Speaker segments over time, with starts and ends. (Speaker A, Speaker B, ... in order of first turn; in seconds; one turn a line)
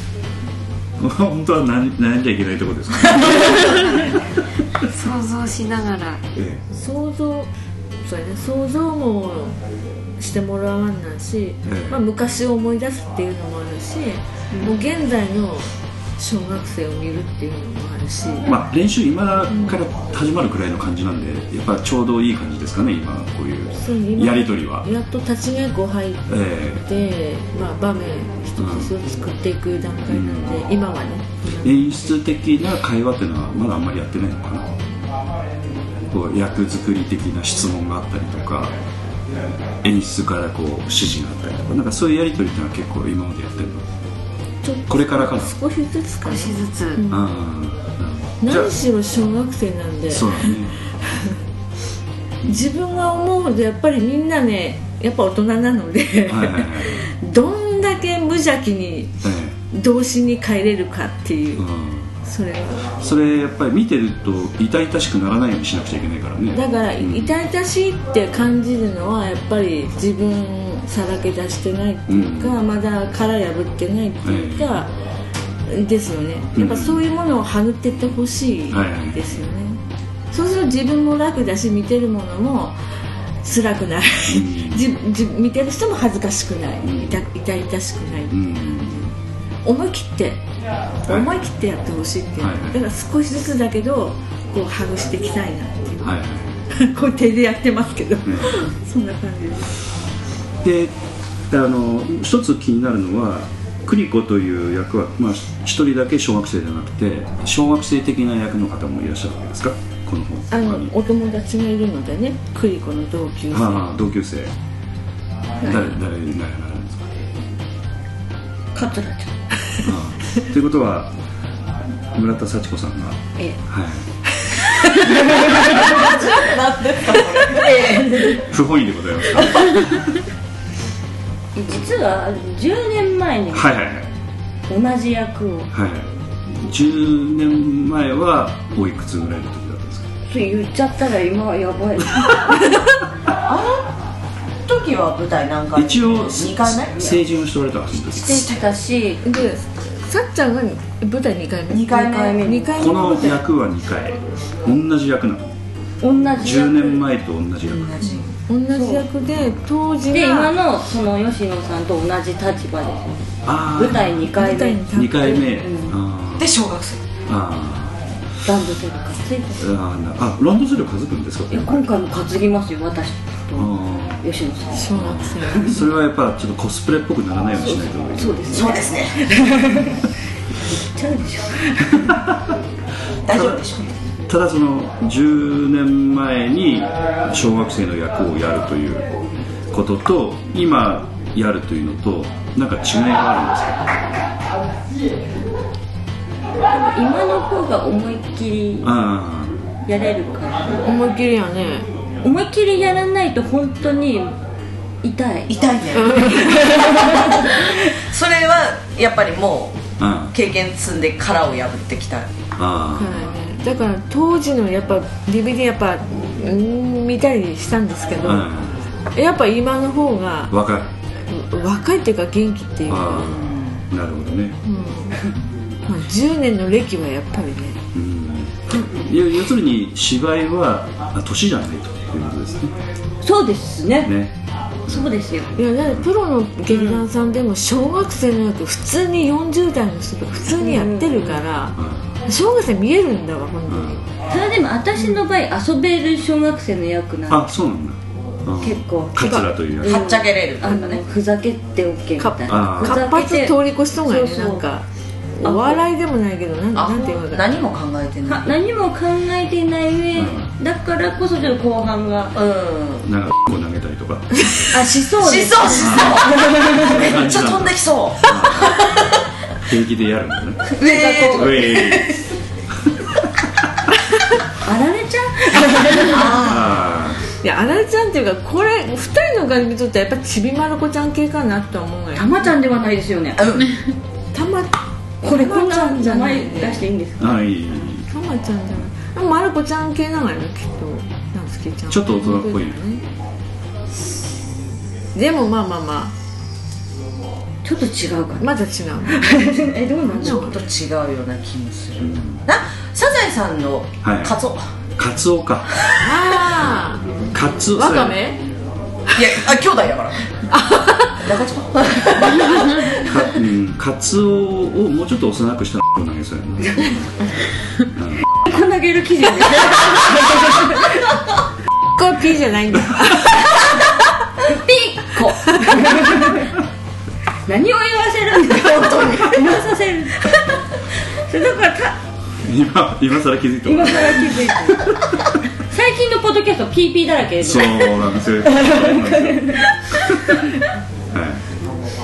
Speaker A: 1.0-3.9
Speaker B: 3.6-4.2
Speaker B: 4.8-6.2
Speaker A: 6.3-6.6
Speaker C: 6.7-7.5
Speaker C: 8.0-9.6
Speaker C: 10.2-18.5
Speaker A: 11.7-12.0
Speaker A: 18.4-24.9
Speaker C: 19.5-19.8
Speaker C: 23.7-26.3
Speaker A: 26.3-26.8
Speaker C: 26.8-32.1
Speaker A: 28.6-28.9
Speaker A: 30.1-30.6
Speaker A: 31.6-34.7
Speaker A: 36.1-38.8
Speaker A: 39.8-43.9
Speaker C: 44.6-47.2
Speaker A: 44.9-45.5
Speaker B: 46.2-47.0
Speaker A: 47.1-48.7
Speaker C: 48.4-50.5
Speaker A: 50.1-50.8
Speaker C: 52.4-61.6
Speaker A: 56.2-57.0
Speaker A: 59.2-59.5
Speaker A: 61.6-62.1
Speaker C: 62.2-62.9
Speaker A: 63.0-67.4
Speaker C: 66.5-74.9
Speaker A: 72.1-72.6
Speaker A: 74.2-74.8
Speaker C: 75.7-79.8
Speaker A: 76.5-77.0
Speaker A: 78.7-79.3
Speaker C: 80.3-82.8
Speaker C: 83.4-88.4
Speaker A: 84.3-84.8
Speaker A: 86.8-87.2
Speaker A: 88.3-89.1
Speaker C: 89.6-90.4
Speaker C: 91.0-96.2
Speaker A: 91.1-91.4
Speaker A: 92.4-92.8
Speaker A: 96.0-96.6
Speaker C: 96.7-99.7
Speaker A: 98.2-98.7
Speaker A: 100.6-101.0
Speaker A: 101.5-110.9
Speaker C: 110.5-113.9
Speaker A: 113.5-114.5
Speaker C: 115.6-115.9
Speaker A: 115.6-117.1
Speaker D: 118.7-119.3
Speaker A: 119.8-121.1
Speaker A: 122.1-124.0
Speaker D: 125.3-126.3
Speaker E: 125.6-127.9
Speaker D: 127.4-128.4
Speaker A: 128.3-130.0
Speaker D: 131.5-133.8
Speaker A: 133.5-134.1
Speaker D: 134.7-135.7
Speaker A: 135.7-140.1
Speaker D: 140.3-142.6
Speaker E: 143.4-143.9
Speaker E: 144.7-147.1
Speaker A: 145.7-148.5
Speaker D: 148.1-149.2
Speaker C: 149.2-153.4
Speaker E: 151.7-152.6
Speaker D: 151.9-152.8
Speaker A: 152.8-155.5
Speaker D: 156.0-157.0
Speaker A: 156.3-158.1
Speaker E: 157.8-158.2
Speaker C: 158.1-160.5
Speaker D: 158.7-159.0
Speaker D: 160.1-165.9
Speaker A: 163.4-164.3
Speaker C: 164.3-165.4
Speaker A: 164.9-166.5
Speaker E: 166.4-167.0
Speaker A: 167.3-168.0
Speaker D: 168.4-169.6
Speaker A: 169.6-171.8
Speaker D: 171.5-174.9
Speaker A: 173.6-174.2
Speaker C: 174.7-175.8
Speaker A: 174.9-178.6
Speaker D: 177.6-180.1
Speaker E: 178.5-179.2
Speaker D: 180.7-182.2
Speaker A: 182.1-182.5
Speaker E: 183.3-183.9
Speaker A: 183.3-183.6
Speaker A: 184.3-189.1
Speaker A: 189.7-193.9
Speaker D: 196.7-198.9
Speaker A: 198.8-199.6
Speaker D: 199.9-200.8
Speaker C: 200.8-201.9
Speaker D: 202.2-204.3
Speaker D: 205.0-207.3
Speaker E: 205.5-212.3
Speaker A: 210.0-210.3
Speaker A: 212.6-213.3
Speaker C: 212.9-218.5
Speaker A: 218.2-218.8
Speaker C: 219.1-220.5
Speaker A: 220.5-220.9
Speaker C: 221.3-223.4
Speaker A: 222.9-224.6
Speaker E: 223.2-223.8
Speaker C: 224.6-225.2
Speaker C: 225.9-227.8
Speaker A: 227.9-232.7
Speaker D: 233.2-234.1
Speaker A: 234.0-234.3
Speaker D: 234.9-235.5
Speaker A: 234.9-236.1
Speaker C: 235.6-244.0
Speaker D: 236.7-237.0
Speaker D: 240.6-241.4
Speaker A: 241.8-242.1
Speaker A: 243.7-244.0
Speaker D: 244.3-247.5
Speaker A: 247.3-250.1
Speaker D: 248.6-254.6
Speaker E: 249.8-251.0
Speaker C: 252.2-254.8
Speaker A: 252.5-253.0
Speaker C: 255.4-257.4
Speaker D: 255.4-255.8
Speaker E: 256.7-258.5
Speaker D: 258.2-262.3
Speaker A: 260.1-260.5
Speaker E: 262.3-263.1
Speaker A: 263.0-264.7
Speaker D: 264.7-266.9
Speaker E: 265.2-269.2
Speaker A: 265.8-268.9
Speaker A: 269.6-270.7
Speaker E: 270.8-272.1
Speaker D: 270.8-271.9
Speaker A: 271.3-272.2
Speaker D: 274.6-276.4
Speaker E: 276.0-276.8
Speaker A: 276.3-277.2
Speaker C: 277.4-282.5
Speaker D: 282.1-283.6
Speaker E: 283.4-283.7
Speaker C: 284.3-286.8
Speaker D: 285.2-287.3
Speaker A: 287.2-288.1
Speaker C: 288.1-293.0
Speaker A: 291.9-292.8
Speaker C: 295.1-296.1
Speaker D: 297.6-298.5
Speaker C: 298.4-299.3
Speaker D: 299.1-300.6
Speaker C: 300.1-300.5
Speaker E: 300.2-304.6
Speaker A: 302.0-302.4
Speaker A: 304.0-304.4
Speaker A: 305.0-305.8
Speaker C: 306.0-307.0
Speaker A: 306.6-308.2
Speaker C: 307.7-308.4
Speaker E: 309.1-310.2
Speaker C: 310.5-311.1
Speaker E: 311.1-313.2
Speaker A: 313.0-316.9
Speaker A: 317.9-318.2
Speaker D: 318.4-321.1
Speaker C: 321.9-323.5
Speaker D: 324.4-326.6
Speaker D: 327.5-330.4
Speaker E: 328.5-329.5
Speaker D: 331.3-332.0
Speaker A: 332.4-334.4
Speaker D: 333.6-335.0
Speaker D: 335.7-340.4
Speaker A: 337.4-340.3
Speaker A: 341.1-341.4